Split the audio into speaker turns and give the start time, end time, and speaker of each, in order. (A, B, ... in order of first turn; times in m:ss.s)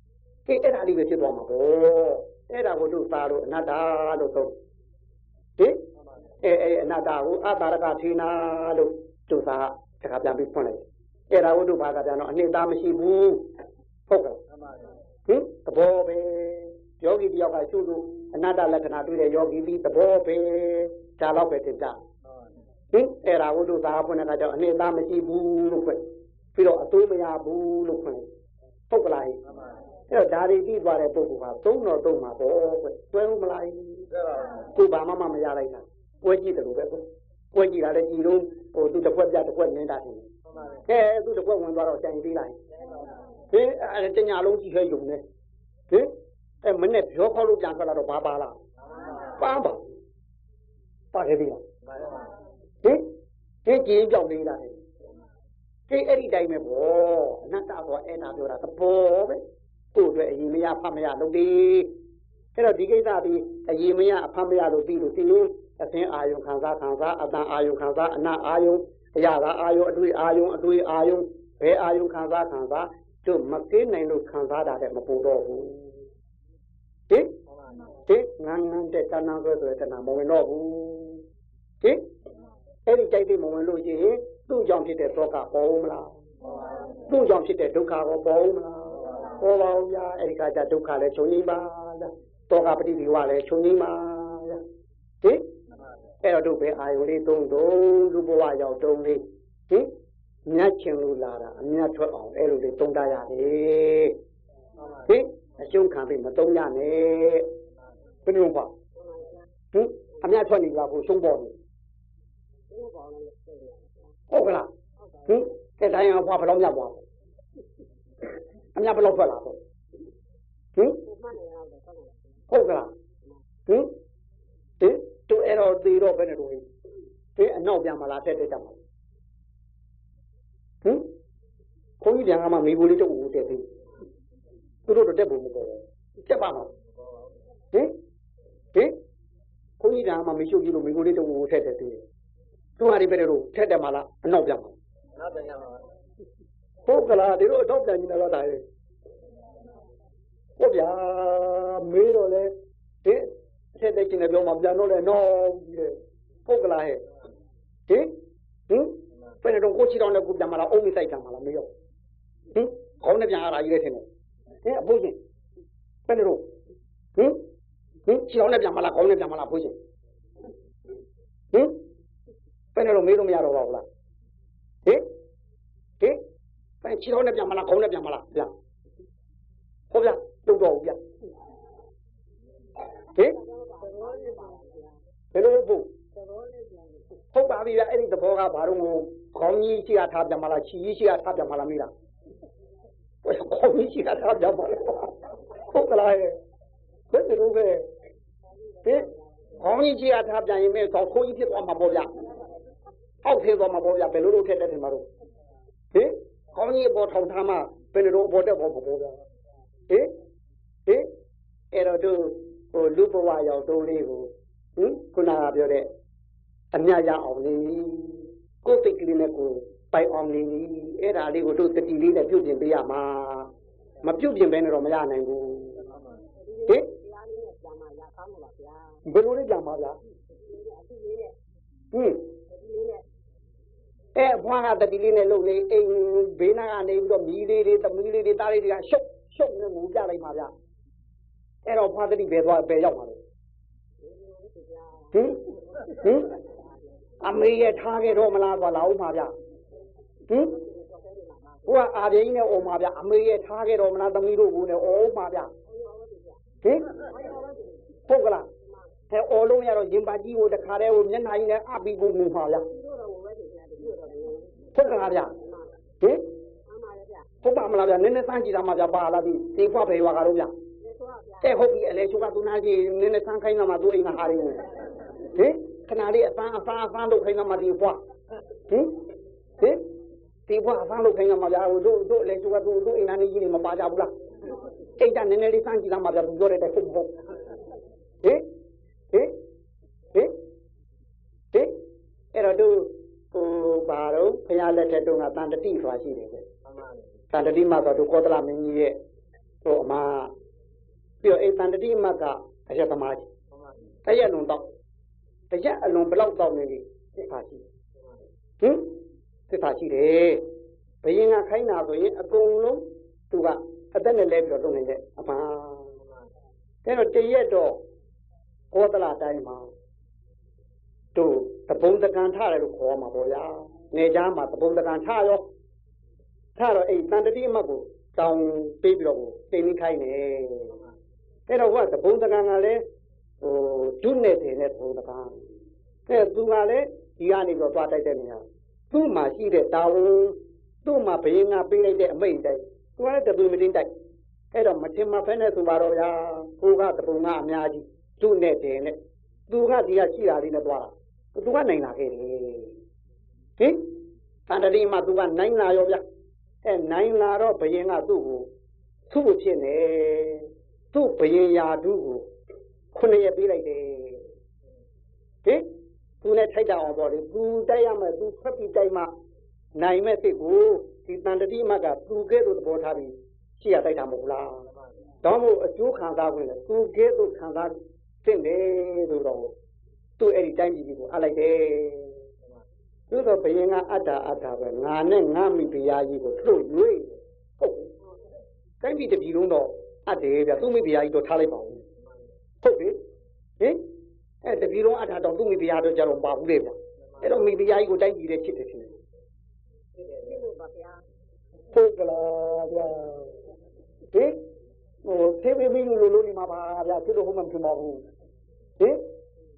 0:00.5-0:04.6 A
0:05.6-0:05.8 A
0:06.4-0:13.5 A
0:14.1-0:14.4 A
0:14.5-0:15.0 B
0:15.3-0:22.0 A
0:22.3-0:22.6 B
0:22.9-0:28.3 A
0:28.9-0:29.4 A
0:29.4-0:29.8 B
0:30.1-0:34.1 A
0:34.1-0:34.7 B
0:34.8-0:40.3 A
0:40.5-0:40.9 B
0:40.9-0:42.6 A
0:42.7-0:43.2 B
0:43.5-0:45.2 A
0:45.9-0:48.6 A
0:48.9-0:49.4 B
0:49.4-0:50.0 A
0:51.1-0:51.6 A
0:51.8-0:52.4 B
0:52.8-0:53.1 A
0:53.6-0:54.8 A
0:55.9-0:59.4 A
0:59.9-1:01.9 A
1:02.6-1:16.0 A
1:17.5-1:18.0 B
1:18.1-1:21.2 A
1:22.9-1:26.2 A
1:26.6-1:26.9 B
1:27.1-1:34.6 A
1:35.2-1:35.5 A
1:36.2-1:39.9 A
1:40.4-1:44.2 A
1:44.8-1:45.2 B
1:45.1-1:47.5 A
1:48.3-1:48.7 A
1:49.0-1:49.4 C
1:49.7-1:51.6 A
1:52.7-1:54.1 C
1:54.3-1:54.7 A
1:55.0-1:55.4 C
1:55.3-1:57.0 A
1:58.8-1:59.6 A
2:01.0-2:02.3 C
2:02.5-2:02.9 A
2:04.8-2:06.6 A
2:07.4-2:08.8 A
2:10.8-2:11.1 A
2:12.0-2:13.7 A
2:14.9-2:16.7 A
2:17.0-2:17.4 B
2:19.8-2:22.0 A
2:22.8-2:24.8 A
2:25.2-2:25.9 B
2:26.9-2:28.6 A
2:30.6-2:37.0 A
2:37.9-2:38.2 A
2:38.7-2:41.7 A
2:42.5-2:44.1 A
2:44.6-2:45.2 A
2:46.1-2:46.5 A
2:47.2-2:47.4 A
2:48.1-2:49.8 A
2:51.5-2:51.8 A
2:52.8-2:53.9 A
2:56.8-2:58.5 A
2:59.9-3:01.0 A
3:03.1-3:05.0 C
3:05.3-3:05.9 A
3:06.2-3:07.0 C
3:07.3-3:11.9 A
3:13.2-3:16.4 A
3:17.1-3:17.9 A
3:18.8-3:19.2 C
3:18.8-3:22.1 A
3:23.2-3:25.1 A
3:25.9-3:29.2 A
3:31.7-3:35.9 A
3:36.7-3:43.5 A
3:44.0-3:45.8 A
3:45.8-3:46.2 B
3:46.4-3:49.0 C
3:49.0-3:50.0 A
3:50.3-3:51.4 C
3:51.9-3:52.3 A
3:52.5-3:53.0 C
3:54.2-4:00.5 A
4:01.7-4:03.2 A
4:04.0-4:06.6 C
4:05.1-4:06.4 A
4:07.2-4:09.4 A
4:10.3-4:10.6 A
4:10.5-4:11.9 C
4:11.7-4:15.5 A
4:15.7-4:18.0 C
4:16.6-4:17.0 A
4:18.1-4:18.5 A
4:19.1-4:22.7 A
4:22.7-4:25.7 C
4:24.8-4:25.4 A
4:26.0-4:26.3 A
4:26.7-4:27.3 C
4:27.4-4:30.5 A
4:30.8-4:31.6 C
4:31.4-4:34.7 A
4:35.3-4:38.0 A
4:38.7-4:39.0 A
4:39.6-4:39.8 A
4:40.5-4:44.1 A
4:45.0-4:47.1 A
4:49.1-4:49.4 A
4:51.5-4:51.8 A
4:52.3-4:56.5 A
4:56.6-4:57.2 B
4:57.3-4:59.0 A
4:59.6-5:00.3 A
5:01.2-5:03.3 A
5:03.5-5:04.0 B
5:04.0-5:04.7 A
5:05.5-5:07.7 A
5:08.6-5:10.5 A
5:11.0-5:15.9 A
5:16.0-5:16.3 B
5:16.8-5:17.8 A
5:18.7-5:19.7 A
5:21.2-5:25.5 A
5:26.6-5:30.8 A
5:31.5-5:32.9 A
5:33.4-5:35.5 A
5:36.1-5:43.9 A
5:44.5-5:52.8 A
5:53.6-5:54.0 A
5:54.5-5:56.0 A
5:56.6-5:58.5 A
5:59.1-6:02.3 A
6:02.9-6:04.3 A
6:05.4-6:05.7 A
6:06.2-6:09.1 A
6:09.8-6:14.7 A
6:15.2-6:19.5 A
6:20.2-6:22.2 A
6:23.1-6:27.9 A
6:28.8-6:31.9 A
6:32.0-6:32.3 B
6:32.6-6:33.0 A
6:33.6-6:33.9 A
6:34.4-6:39.0 A
6:37.0-6:37.3 B
6:40.0-6:40.4 B
6:40.2-6:41.0 C
6:41.7-6:43.4 A
6:44.1-6:44.4 A
6:45.0-6:48.0 A
6:48.8-6:49.1 A